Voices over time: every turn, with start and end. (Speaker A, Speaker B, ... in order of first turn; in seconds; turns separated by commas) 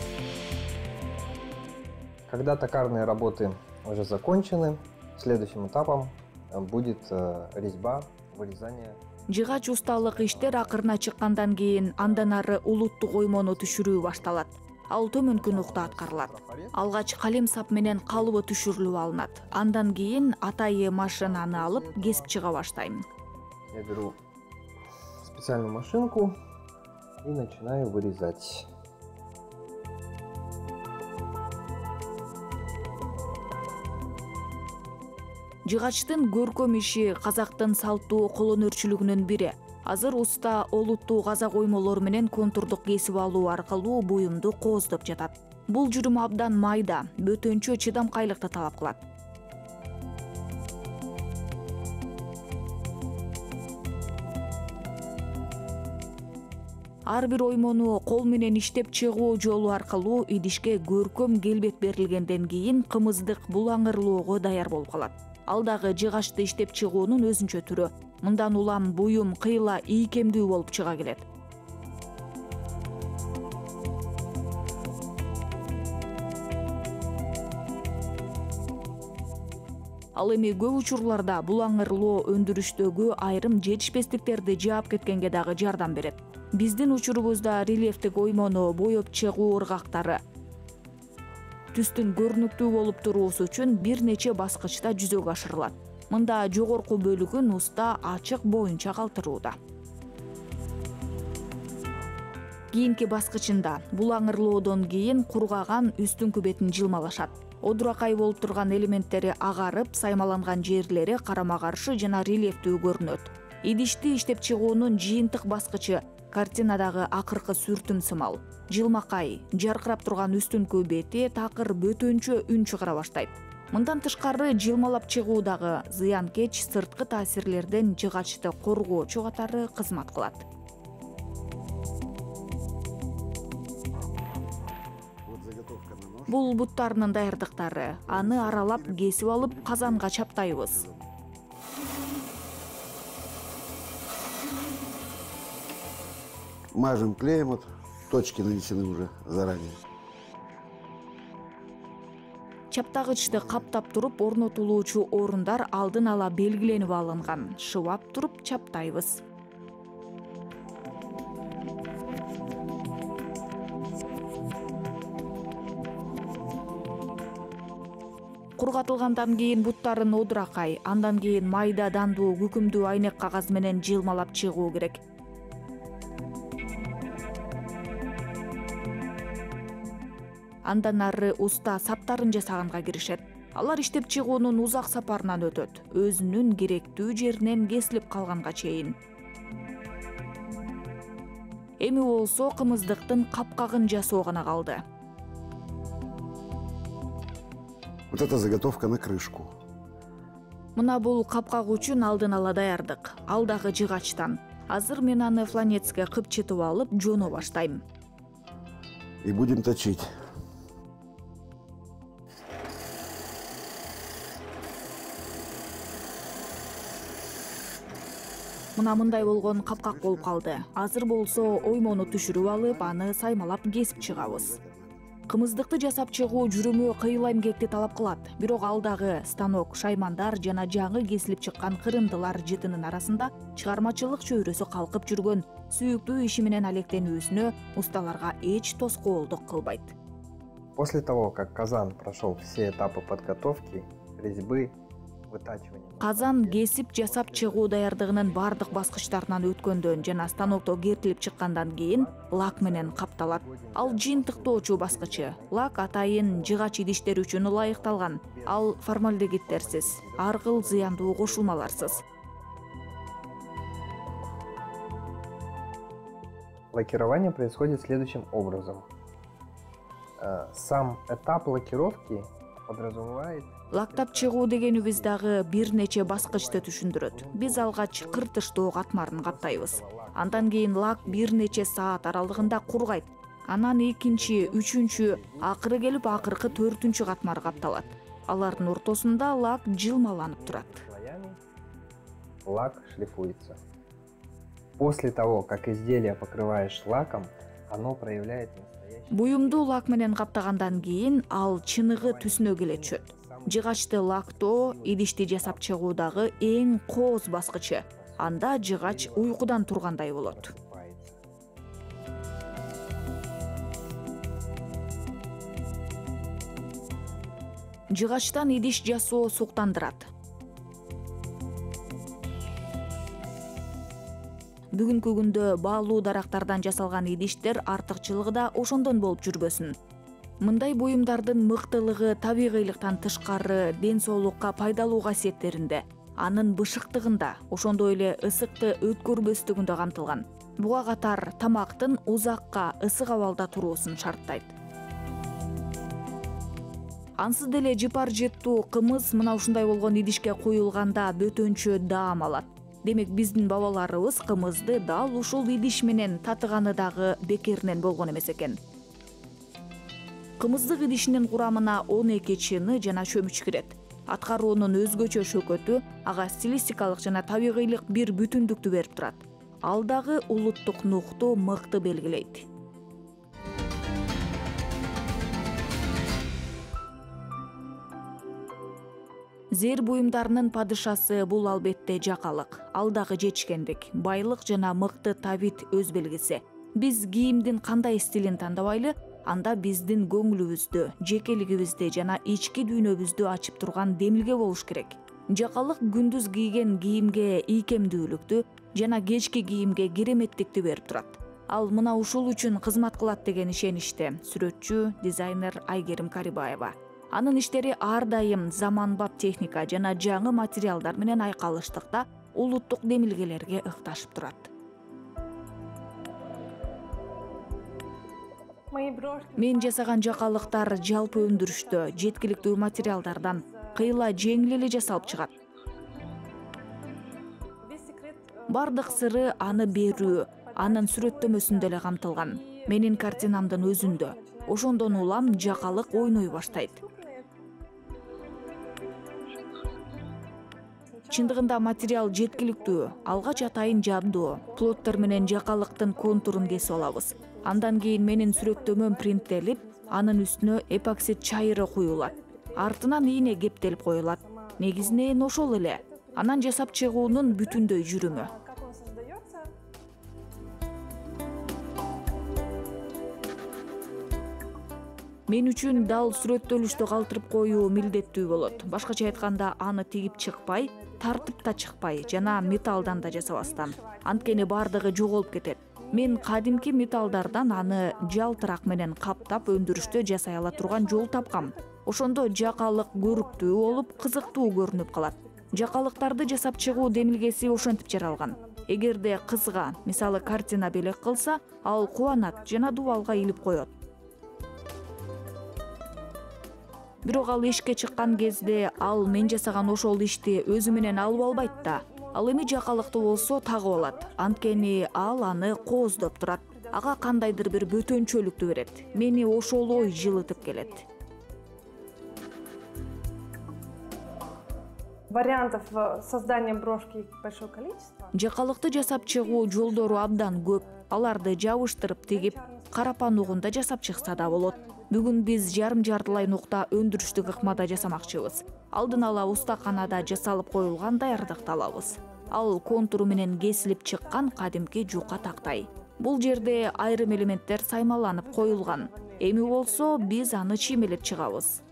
Speaker A: 2.3-9.0, Speaker B: 9.3-23.1, Speaker A: 10.0-11.0, Speaker A: 12.0-12.4, Speaker A: 13.3-14.1, Speaker A: 15.3-16.8, Speaker A: 21.1-22.4, Speaker A: 23.7-24.2, Speaker A: 25.2-26.4, Speaker A: 27.2-28.7, Speaker B: 35.6-49.0, Speaker B: 57.1-71.3, Speaker B: 80.2-90.2, Speaker B: 91.7-99.6, Speaker B: 102.7-130.4, Speaker C: 135.3-136.4, Speaker B: 136.3-140.8, Speaker C: 138.1-141.1, Speaker C: 146.7-149.8, Speaker B: 152.7-159.2, Speaker C: 153.3-153.7, Speaker C: 156.7-157.2, Speaker B: 168.6-175.0, Speaker B: 180.7-189.0, Speaker B: 191.8-194.8, Speaker C: 198.1-199.5, Speaker B: 200.8-207.8, Speaker C: 205.4-206.1, Speaker C: 207.2-207.5, Speaker C: 209.2-210.1, Speaker B: 218.8-224.6, Speaker C: 218.9-220.4, Speaker C: 221.3-223.0, Speaker C: 223.8-225.1, Speaker B: 225.3-239.9, Speaker A: 240.8-244.8, Speaker A: 245.3-250.9, Speaker B: 246.0-262.0, Speaker A: 251.9-256.7, Speaker A: 257.5-258.8, Speaker A: 259.4-262.1, Speaker A: 266.7-268.9, Speaker A: 270.2-278.3, Speaker B: 273.7-290.8, Speaker A: 279.0-281.7, Speaker A: 282.3-282.6, Speaker A: 284.1-288.8, Speaker A: 290.3-291.4, Speaker A: 292.4-293.6, Speaker A: 294.8-299.7, Speaker B: 299.1-310.5, Speaker A: 300.6-306.6, Speaker A: 307.9-311.2, Speaker B: 317.9-320.1, Speaker B: 324.7-329.8, Speaker B: 330.4-344.5, Speaker B: 347.2-358.6, Speaker B: 360.4-372.5, Speaker B: 379.5-414.5, Speaker D: 418.7-425.4, Speaker B: 419.4-425.3, Speaker D: 427.6-437.3, Speaker B: 428.5-436.8, Speaker D: 440.9-450.2, Speaker B: 441.1-458.3, Speaker D: 451.0-459.5, Speaker B: 465.3-493.7, Speaker D: 465.6-493.6, Speaker D: 497.0-500.1, Speaker B: 497.0-510.8, Speaker D: 500.6-510.9, Speaker D: 515.1-537.4, Speaker B: 518.1-541.6, Speaker D: 538.2-541.4